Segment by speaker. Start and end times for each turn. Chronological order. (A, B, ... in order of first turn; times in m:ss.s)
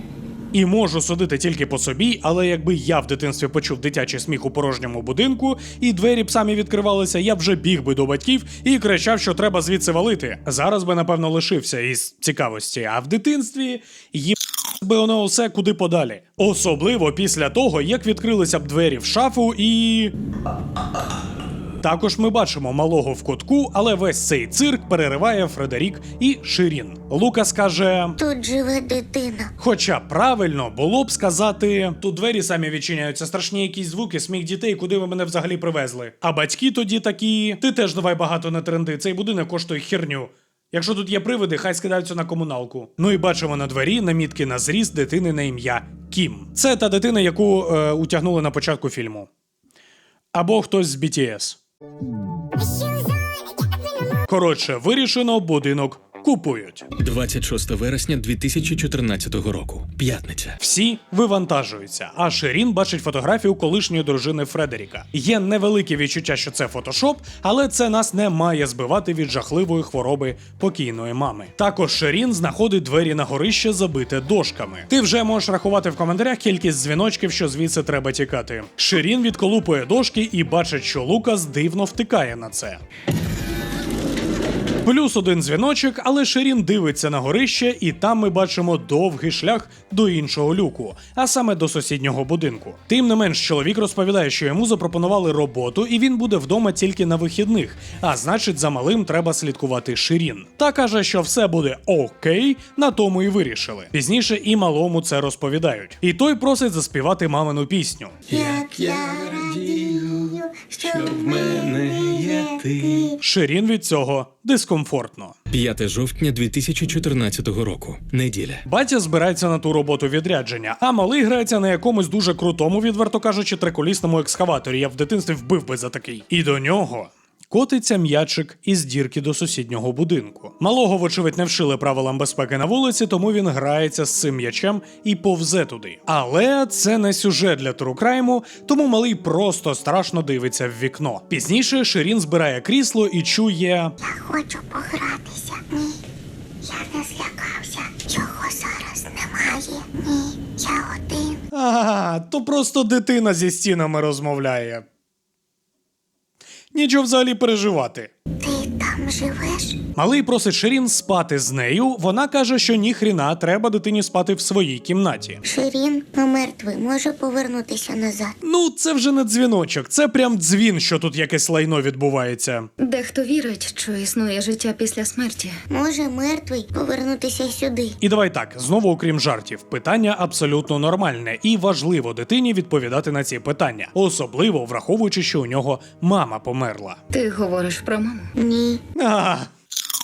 0:00.5-0:20.1 A
0:21.8-0:28.2 A
0:28.2-0:29.5 B
0:29.6-0:49.3 A
0:50.3-0:51.6 A
0:54.2-0:56.9 A
0:57.0-1:00.6 C
1:00.6-1:22.8 A
1:24.8-1:48.2 A
1:48.3-1:53.1 C
1:48.3-1:53.2 B
1:53.2-1:55.4 A
1:55.5-1:58.6 C
1:58.6-2:23.9 A
2:24.0-2:26.0 B
2:26.6-2:31.4 B
2:31.5-2:34.8 A
2:36.7-2:38.1 A
2:38.4-2:39.8 B
2:40.0-2:45.4 A
2:45.4-2:48.4 B
2:48.4-2:52.7 A
2:52.8-2:55.6 D
2:55.7-2:58.0 B
2:58.0-3:07.0 A
3:07.1-3:08.3 D
3:08.4-3:08.8 B
3:08.9-3:09.5 A